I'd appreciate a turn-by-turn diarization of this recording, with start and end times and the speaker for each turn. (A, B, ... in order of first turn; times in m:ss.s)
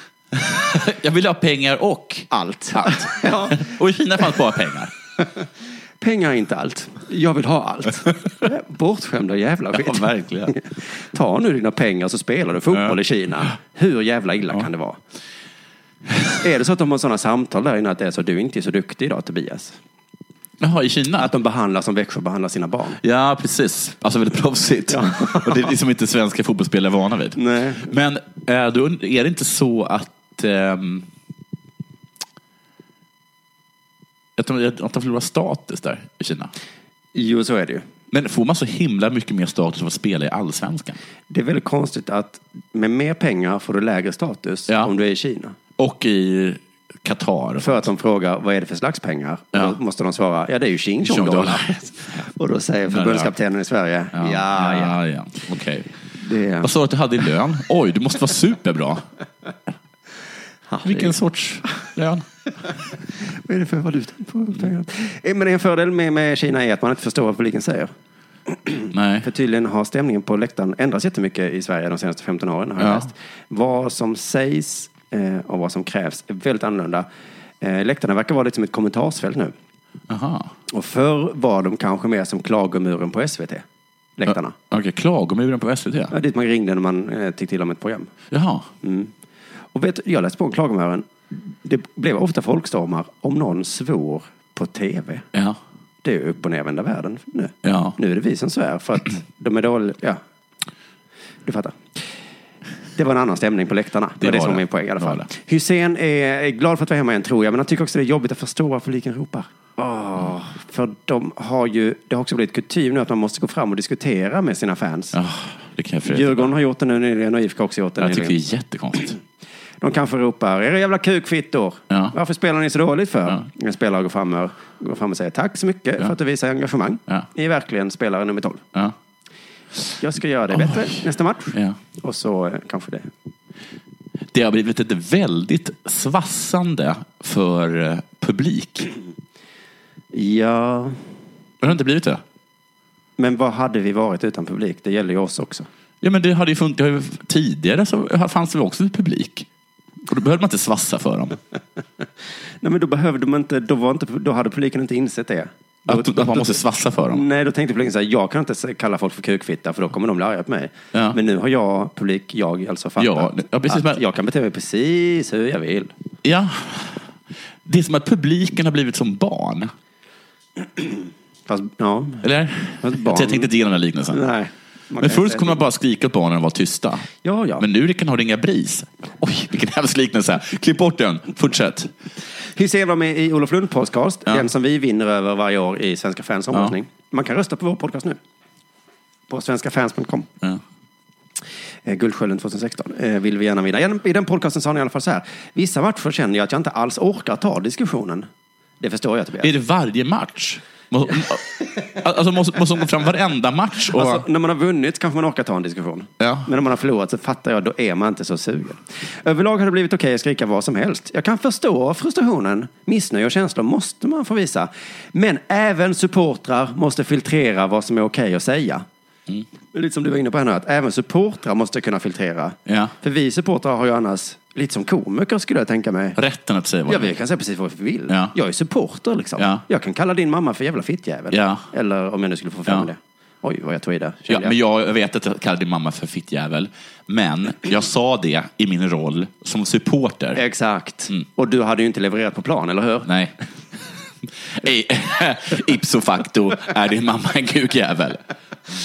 0:00.3-0:04.9 A
0:02.3-0:03.7 B
0:06.0-0:15.0 B
0:09.7-0:10.5 A
0:16.4-0:19.8 B
0:20.6-0:21.3 A
0:21.2-0:23.0 B
0:23.0-0:31.1 A
0:24.9-0:25.7 B
0:27.4-0:27.9 B
0:34.4-0:36.5 A
0:37.1-0:37.8 B
0:38.1-0:41.0 A
0:41.3-0:45.6 B
0:45.8-0:47.9 A
0:47.6-0:55.0 B
0:51.0-0:52.2 A
0:52.9-0:53.3 A
0:54.1-0:55.9 A
0:56.2-0:56.7 B
0:56.6-0:59.0 A
1:00.7-1:01.2 B
1:00.8-1:02.2 A
1:03.1-1:07.9 B
1:08.5-1:17.0 B
1:08.9-1:09.2 A
1:12.8-1:13.1 A
1:17.6-1:19.5 B
1:20.1-1:20.5 A
1:20.7-1:23.6 B
1:24.2-1:24.6 B
1:24.3-1:26.1 A
1:26.1-1:28.1 B
1:28.3-1:28.7 A
1:28.8-1:29.1 B
1:29.7-1:35.2 B
1:36.0-1:40.2 B
1:37.6-1:38.0 A
1:41.4-1:41.8 B
1:43.0-1:55.2 B
1:44.2-1:45.3 A
1:55.1-1:56.5 A
1:56.0-1:58.4 B
1:58.0-1:59.2 A
1:59.8-2:08.6 B
2:01.9-2:02.1 A
2:10.0-2:13.1 B
2:10.5-2:11.0 A
2:14.3-2:18.9 A
2:20.1-2:21.0 B
2:21.6-2:22.2 A
2:23.2-2:25.7 B
2:26.0-2:29.5 A
2:30.0-2:31.4 A
2:32.6-2:45.9 B
2:35.9-2:37.2 A
2:43.0-2:44.0 A
2:46.2-2:47.1 A
2:47.6-2:49.7 A
2:50.8-2:52.2 B
2:52.2-2:54.2 A
2:52.8-2:53.5 B
2:54.1-2:55.6 B
2:55.0-3:01.9 A
2:57.2-2:57.6 B
3:02.5-3:08.2 B
3:09.3-3:10.3 B
3:11.8-3:18.3 B
3:18.8-3:19.5 B
3:19.4-3:24.2 A
3:23.9-3:38.9 B
3:26.2-3:26.5 A
3:39.7-3:46.2 B
3:42.6-3:42.9 A
3:46.2-3:47.1 A
3:46.9-3:54.5 B
3:48.1-3:48.3 A
3:49.4-3:49.6 A
3:51.3-3:51.6 A
3:54.3-4:00.4 A
4:00.4-4:03.1 B
4:03.0-4:03.3 A
4:04.5-4:08.2 A